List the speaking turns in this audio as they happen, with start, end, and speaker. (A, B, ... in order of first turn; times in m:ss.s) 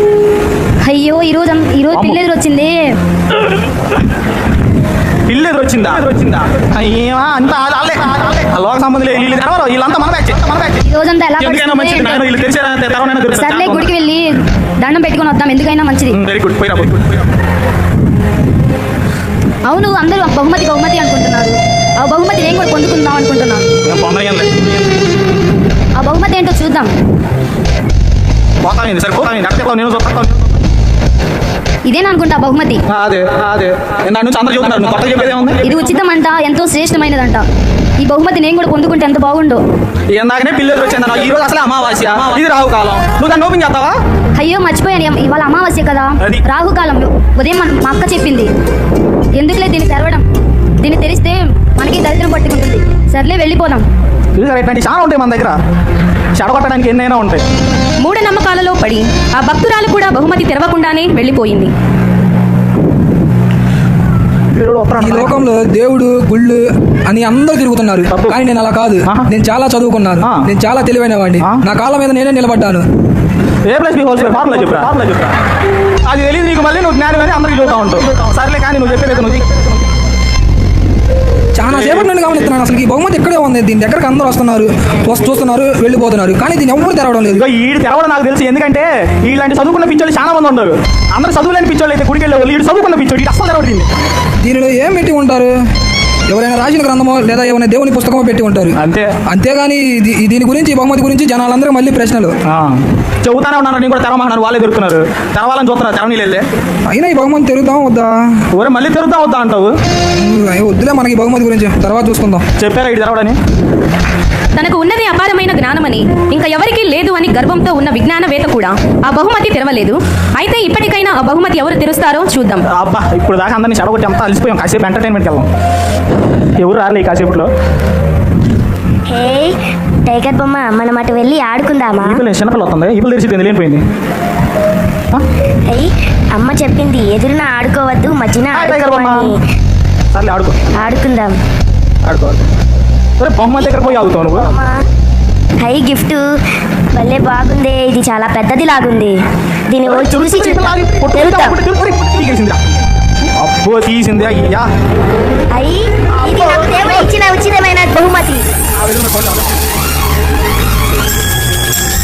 0:00.8-0:03.0 A
0:01.9-0:02.2 B
0:05.3-0:10.8 B
0:10.8-0:12.3 A
0:11.4-0:13.9 B
0:13.3-0:16.2 A
0:16.1-0:17.2 B
0:19.6-0:23.7 A
0:23.8-0:24.7 B
0:26.0-0:26.9 A
0:28.6-0:30.3 B
0:31.8-0:32.8 A
0:32.9-0:36.0 B
0:35.6-0:37.5 A
0:38.0-0:39.6 A
0:40.1-0:44.0 B
0:44.4-0:48.5 A
0:49.3-0:50.3 A
0:50.8-0:53.9 A
0:54.4-0:55.6 B
0:56.4-0:57.4 B
0:58.0-1:01.7 C
1:04.6-1:05.4 B
1:05.0-1:12.8 D
1:08.1-1:08.4 B
1:10.2-1:10.5 B
1:13.7-1:15.3 B
1:16.0-1:19.7 B
1:21.6-1:27.4 D
1:21.7-1:22.5 B
1:27.3-1:33.9 B
1:34.4-1:35.5 D
1:36.3-1:38.8 D
1:38.8-1:39.1 B
1:39.3-1:42.3 D
1:42.5-1:46.4 B
1:46.9-1:48.1 D
1:48.5-1:49.8 B
1:50.2-1:52.4 D
1:52.6-1:53.4 B
1:54.6-2:02.6 C
2:02.7-2:05.5 B
2:06.6-2:07.5 B
2:09.1-2:12.2 E
2:12.0-2:13.8 B
2:15.7-2:19.4 E
2:18.5-2:19.3 B
2:20.1-2:20.6 B
2:20.8-2:21.4 E
2:22.0-2:22.4 B
2:23.2-2:24.6 B
2:23.6-2:24.8 E
2:25.6-2:26.4 E
2:26.9-2:29.2 E
2:29.7-2:31.6 E
2:29.8-2:32.6 B
2:33.4-2:34.7 B
2:35.5-2:38.5 E
2:36.2-2:37.1 B
2:38.8-2:39.5 B